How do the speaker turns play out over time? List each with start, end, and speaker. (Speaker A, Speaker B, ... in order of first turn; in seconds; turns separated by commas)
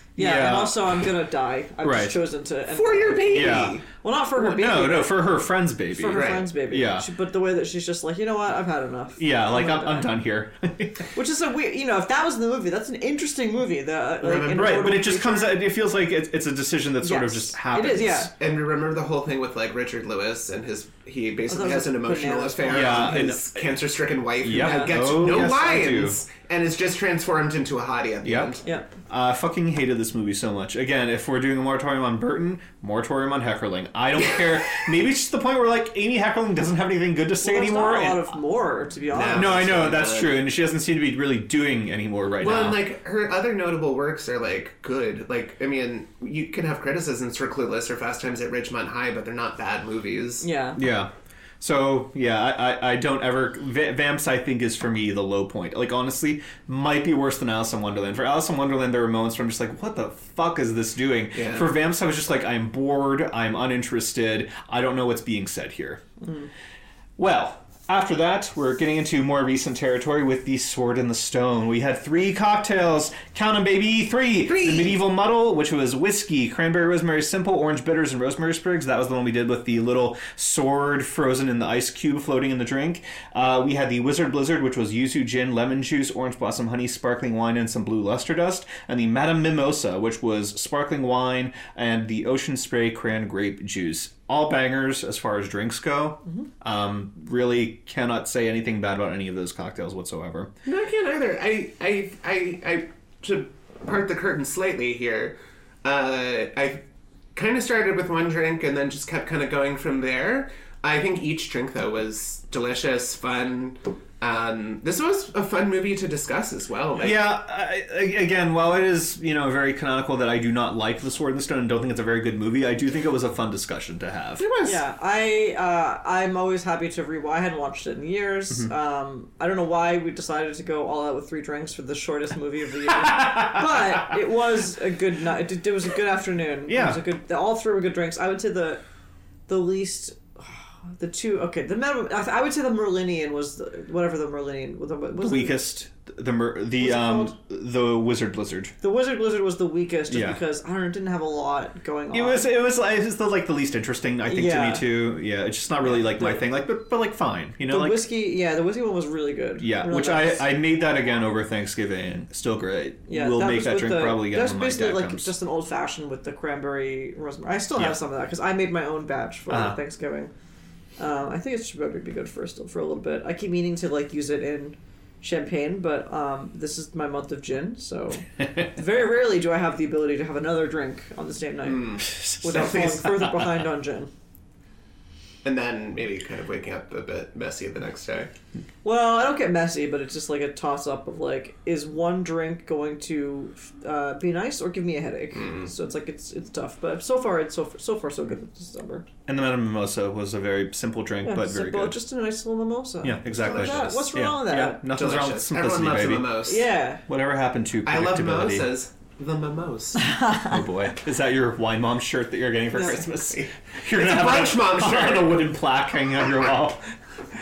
Speaker A: 0.1-5.3, Speaker B: 0.2-0.9, Speaker B: 1.8-2.2, Speaker C: 2.7-3.8, Speaker B: 3.3-3.8, Speaker B: 4.4-7.1, Speaker A: 5.9-10.1, Speaker C: 6.1-6.5, Speaker B: 9.2-11.1, Speaker A: 11.1-15.6, Speaker C: 14.2-14.9, Speaker B: 14.5-18.3, Speaker A: 17.0-18.3, Speaker C: 18.3-28.6, Speaker A: 21.5-23.2, Speaker B: 22.7-23.6, Speaker B: 24.4-26.2, Speaker A: 24.6-25.4, Speaker B: 28.2-28.6, Speaker B: 29.1-38.3, Speaker A: 37.4-39.7, Speaker C: 39.1-40.4, Speaker B: 39.3-42.8, Speaker C: 42.4-50.5, Speaker A: 50.4-50.8, Speaker B: 50.8-66.0, Speaker C: 61.3-61.7, Speaker A: 66.2-66.5, Speaker B: 67.2-100.5, Speaker C: 74.4-75.0, Speaker C: 100.6-117.2, Speaker B: 117.0-124.4, Speaker C: 124.4-124.8, Speaker A: 124.6-138.8, Speaker B: 133.1-134.0, Speaker B: 136.7-137.0, Speaker A: 139.5-145.6, Speaker B: 145.2-148.7, Speaker A: 146.8-147.3, Speaker A: 148.8-152.5, Speaker B: 150.1-150.4, Speaker B: 152.1-158.0, Speaker A: 154.2-154.8, Speaker A: 155.8-156.4, Speaker A: 157.7-160.4, Speaker B: 159.6-165.3, Speaker A: 163.1-170.3, Speaker B: 169.5-169.8, Speaker A: 171.0-184.1, Speaker C: 181.7-183.0, Speaker C: 185.4-188.3, Speaker A: 188.8-199.1, Speaker C: 195.3-195.7, Speaker B: 199.3-202.0, Speaker A: 201.2-204.8, Speaker B: 203.0-206.3, Speaker C: 203.3-204.0, Speaker C: 204.9-206.7, Speaker A: 206.4-207.0, Speaker B: 207.1-208.7, Speaker C: 207.8-210.1, Speaker A: 210.2-210.5, Speaker B: 210.4-216.9, Speaker A: 212.7-213.0, Speaker C: 213.3-215.4